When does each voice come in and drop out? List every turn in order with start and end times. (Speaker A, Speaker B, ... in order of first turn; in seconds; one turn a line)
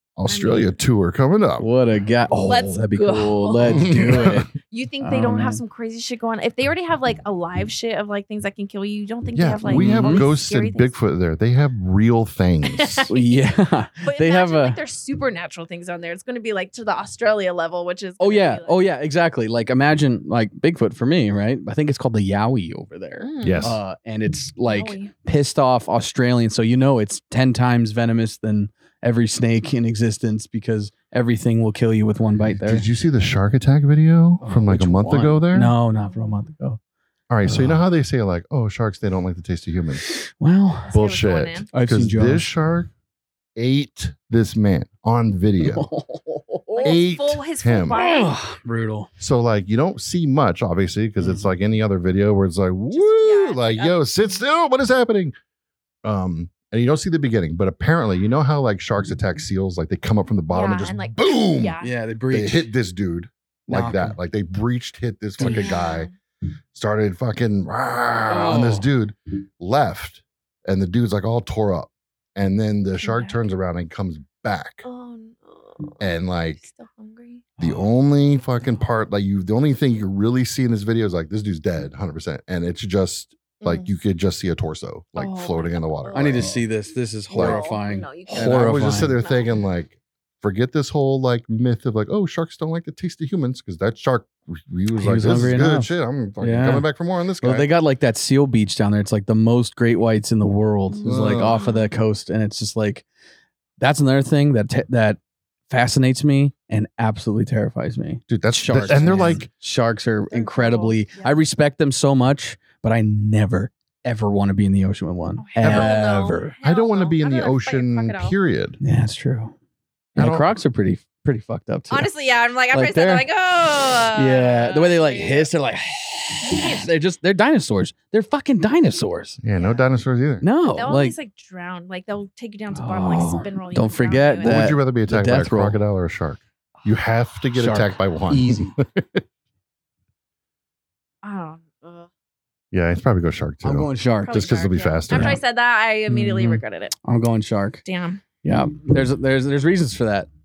Speaker A: 0.1-1.6
Speaker B: 0.3-0.7
Speaker C: 1.6-4.5
Speaker B: 2.5-10.9
Speaker A: 3.7-4.5
Speaker C: 5.0-5.6
Speaker A: 9.3-13.1
Speaker C: 9.7-10.3
Speaker B: 12.7-13.5
Speaker C: 13.1-14.8
Speaker B: 14.0-18.9
Speaker C: 18.2-32.9
Speaker B: 23.2-23.7
Speaker A: 23.4-23.8
Speaker B: 24.7-25.1
Speaker A: 32.6-35.7
Speaker C: 34.4-36.8
Speaker A: 37.3-40.0
Speaker C: 37.4-37.8
Speaker C: 40.0-40.9
Speaker B: 40.9-41.7
Speaker A: 40.9-42.9
Speaker C: 41.7-42.5
Speaker A: 43.5-45.9
Speaker C: 45.6-47.0
Speaker B: 46.7-48.4
Speaker A: 46.8-48.0
Speaker C: 47.9-49.1
Speaker A: 49.2-55.3
Speaker B: 52.9-54.0
Speaker A: 56.0-61.8
Speaker B: 60.5-61.9
Speaker C: 61.8-62.7
Speaker A: 62.3-66.1
Speaker C: 63.7-64.2
Speaker C: 65.4-65.7
Speaker B: 65.4-66.1
Speaker A: 66.7-74.8
Speaker C: 68.3-68.9
Speaker B: 73.0-73.4
Speaker B: 74.8-77.5
Speaker A: 76.0-76.6
Speaker C: 77.6-77.8
Speaker A: 77.6-86.6
Speaker B: 83.6-83.9
Speaker B: 85.2-86.6
Speaker C: 86.1-89.2
Speaker B: 87.3-89.5
Speaker A: 87.3-87.6
Speaker A: 88.3-97.7
Speaker C: 94.9-96.9
Speaker C: 97.4-103.0
Speaker B: 100.9-101.9
Speaker A: 101.0-101.7
Speaker C: 103.8-116.5
Speaker A: 108.3-109.5
Speaker B: 108.8-109.4
Speaker B: 110.3-111.4
Speaker B: 115.4-118.3
Speaker A: 115.6-115.9
Speaker A: 116.6-118.8
Speaker C: 118.8-119.5
Speaker C: 120.1-122.1
Speaker A: 120.2-120.5
Speaker B: 121.9-125.5
Speaker C: 122.7-123.3
Speaker C: 124.1-129.4
Speaker B: 126.4-126.8
Speaker A: 129.4-130.4
Speaker C: 130.4-131.1
Speaker B: 130.8-134.6
Speaker C: 132.7-135.8
Speaker A: 134.4-139.2
Speaker C: 137.5-138.7
Speaker B: 141.2-142.1
Speaker A: 142.7-145.4
Speaker C: 143.6-144.5
Speaker B: 144.2-146.9
Speaker C: 145.1-145.4
Speaker C: 146.1-147.8
Speaker B: 147.8-148.2
Speaker C: 148.4-150.3